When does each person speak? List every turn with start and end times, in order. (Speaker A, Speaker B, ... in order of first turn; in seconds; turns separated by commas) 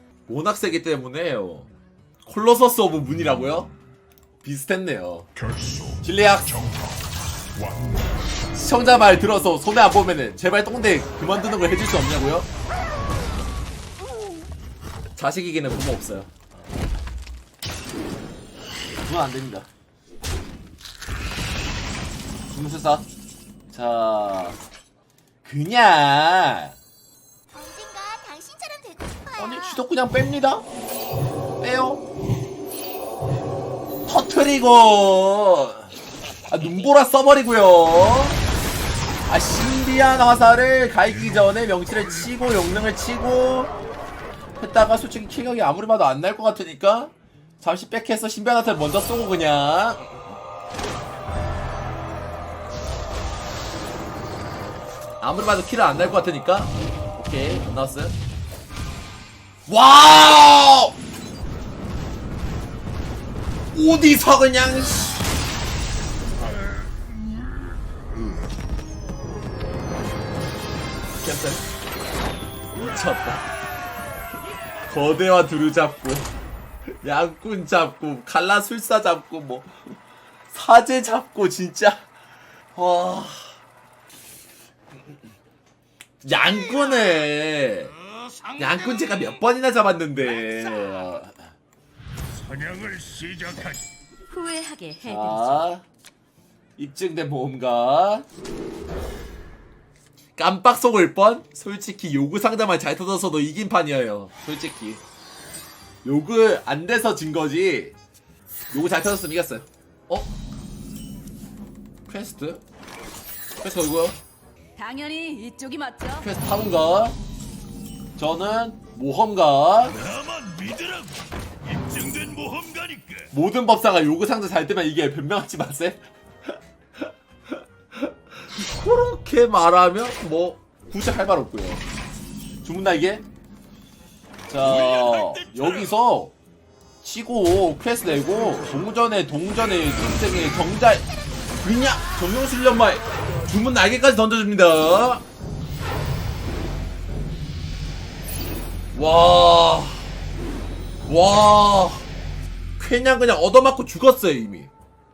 Speaker A: 0.3-1.7, Speaker A: 2.2-3.7, Speaker A: 4.4-5.3, Speaker A: 5.9-6.9, Speaker A: 8.5-12.5, Speaker A: 15.2-16.4, Speaker A: 19.0-19.7, Speaker A: 22.5-23.1, Speaker A: 23.7-24.6, Speaker A: 25.4-26.8, Speaker B: 27.5-29.8, Speaker A: 29.3-30.6, Speaker A: 31.6-32.0, Speaker A: 34.0-35.9, Speaker A: 36.5-38.4, Speaker A: 39.3-43.7, Speaker A: 44.6-50.0, Speaker A: 55.2-58.1, Speaker A: 59.7-61.0, Speaker A: 63.7-65.2, Speaker A: 71.2-71.6, Speaker A: 72.7-73.5, Speaker A: 74.8-76.3, Speaker A: 77.0-79.9, Speaker A: 80.5-82.1, Speaker A: 82.7-83.6, Speaker A: 86.2-87.9, Speaker A: 88.5-91.4, Speaker C: 92.4-93.8, Speaker D: 94.3-95.6, Speaker A: 95.0-95.8, Speaker A: 96.8-98.2, Speaker A: 100.3-105.0, Speaker A: 106.0-108.0, Speaker A: 108.7-110.3, Speaker A: 112.1-112.6, Speaker A: 113.6-114.2, Speaker D: 114.8-116.2, Speaker A: 116.2-117.2, Speaker A: 118.2-120.1, Speaker C: 120.0-123.2, Speaker A: 123.3-126.0, Speaker A: 127.9-131.8, Speaker A: 132.6-133.2, Speaker A: 134.5-136.3, Speaker C: 134.9-135.4, Speaker A: 137.0-145.2, Speaker A: 148.9-150.1, Speaker A: 151.1-152.1, Speaker A: 152.8-154.7